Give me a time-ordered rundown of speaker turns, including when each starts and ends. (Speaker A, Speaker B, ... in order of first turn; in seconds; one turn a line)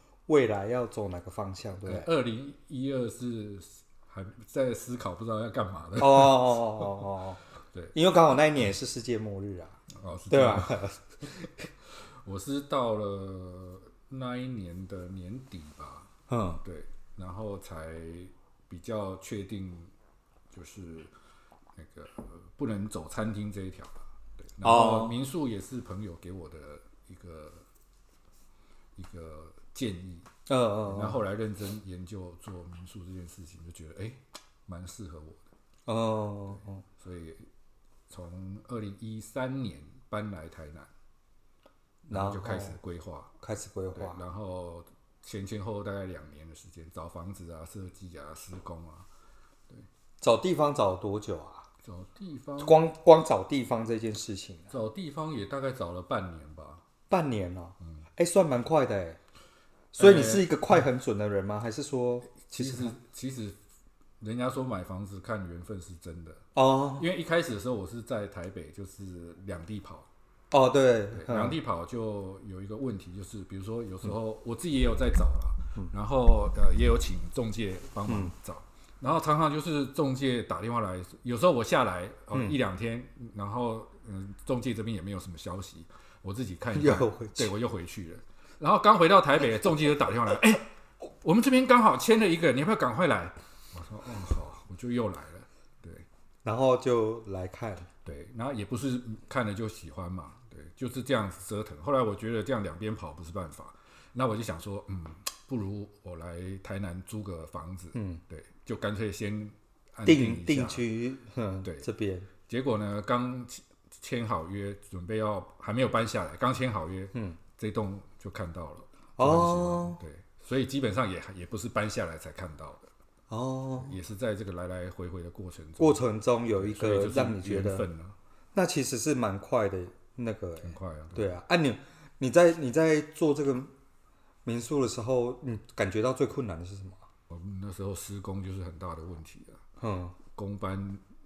Speaker A: 0.3-2.1
Speaker B: 1.9-7.0
Speaker A: 6.0-7.4
Speaker A: 7.9-11.0
Speaker B: 9.9-10.8
Speaker B: 12.2-16.1
Speaker A: 16.3-16.6
Speaker B: 16.6-19.9
Speaker B: 20.5-21.1
Speaker B: 21.7-24.0
Speaker B: 24.6-27.6
Speaker A: 24.6-25.1
Speaker B: 28.9-30.3
Speaker A: 30.5-31.2
Speaker B: 30.9-35.4
Speaker A: 35.9-36.8
Speaker B: 37.0-37.5
Speaker B: 38.1-40.9
Speaker A: 42.1-42.8
Speaker B: 42.1-43.3
Speaker A: 43.4-44.2
Speaker B: 43.9-49.1
Speaker A: 50.2-51.6
Speaker B: 51.8-52.8
Speaker A: 52.6-54.7
Speaker B: 54.7-56.8
Speaker A: 57.1-59.2
Speaker A: 59.9-63.0
Speaker B: 60.0-60.8
Speaker B: 62.5-63.6
Speaker B: 64.2-66.4
Speaker A: 66.5-67.0
Speaker B: 67.0-70.1
Speaker A: 70.5-71.6
Speaker B: 71.1-90.7
Speaker A: 78.1-78.3
Speaker A: 82.3-82.6
Speaker A: 86.7-87.5
Speaker B: 91.2-96.0
Speaker A: 96.4-97.9
Speaker B: 98.0-110.8
Speaker A: 107.9-108.2
Speaker A: 110.0-112.3
Speaker B: 112.5-122.9
Speaker A: 119.2-120.0
Speaker A: 123.3-124.0
Speaker B: 123.8-128.1
Speaker A: 125.8-127.9
Speaker A: 128.5-133.7
Speaker B: 130.6-131.4
Speaker A: 134.4-137.0
Speaker B: 137.3-139.6
Speaker A: 139.8-140.2
Speaker B: 140.3-141.0